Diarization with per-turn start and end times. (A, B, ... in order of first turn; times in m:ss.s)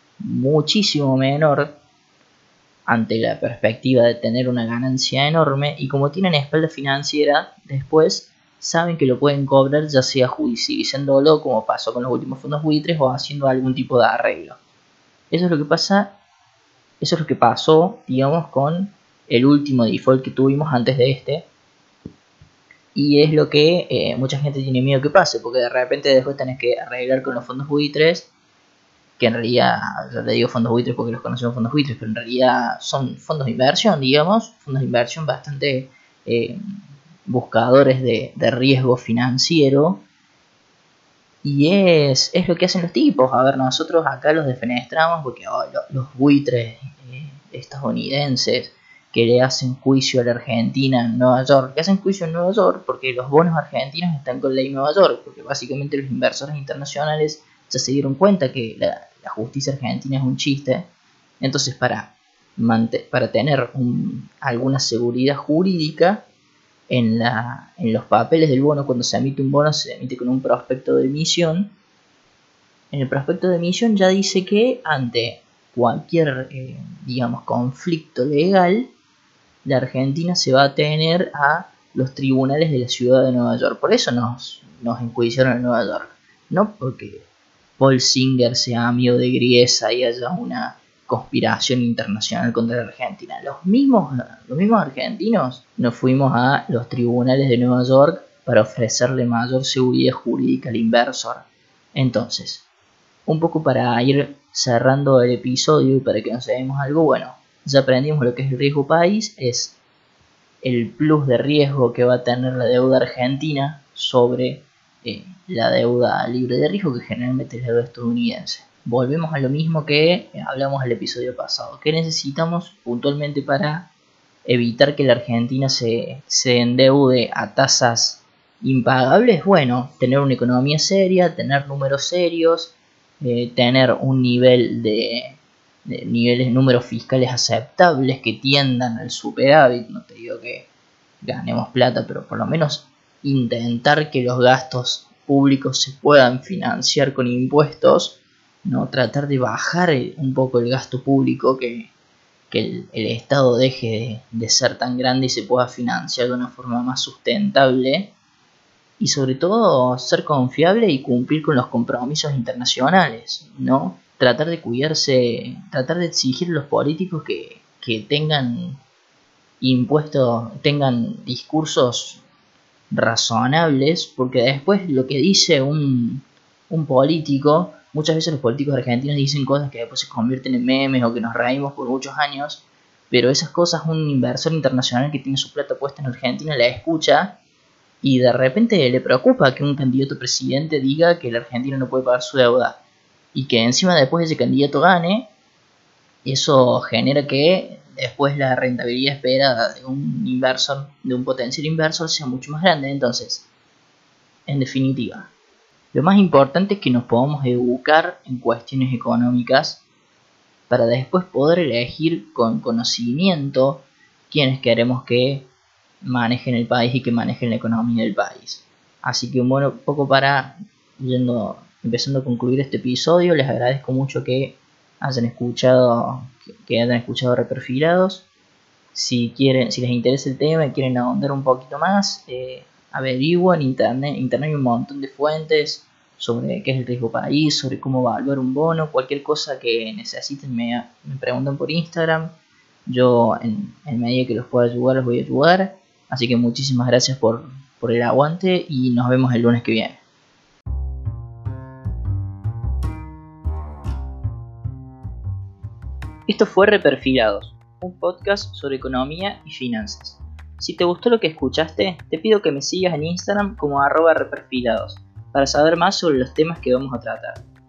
0:00.2-0:01.8 A
0:02.9-0:14.6 A
0:15.3-0:16.1 A
0:17.0-0:21.5 A
0:22.9-0:28.3 A
0:29.2-0:36.6 A
0:37.3-0:40.0 A
0:41.4-1:00.9 A
1:01.4-1:06.2 A
1:06.9-1:11.7 A
1:12.9-1:18.9 A
1:19.6-1:27.2 A
1:27.8-1:42.6 A
1:43.3-1:49.8 A
1:50.6-2:03.9 A
2:04.4-2:20.7 A
2:21.2-2:31.9 A
2:32.5-2:38.1 A
2:39.0-2:48.8 A
2:49.6-2:52.2 A
2:52.9-3:07.4 A
3:08.0-3:12.8 A
3:13.3-3:15.3 A
3:16.2-3:23.4 A
3:24.5-3:25.3 A
3:25.9-3:29.8 A
3:30.7-3:35.5 A
3:36.0-3:48.2 A
3:48.9-4:02.3 A
4:02.9-4:10.0 A
4:16.3-4:27.4 A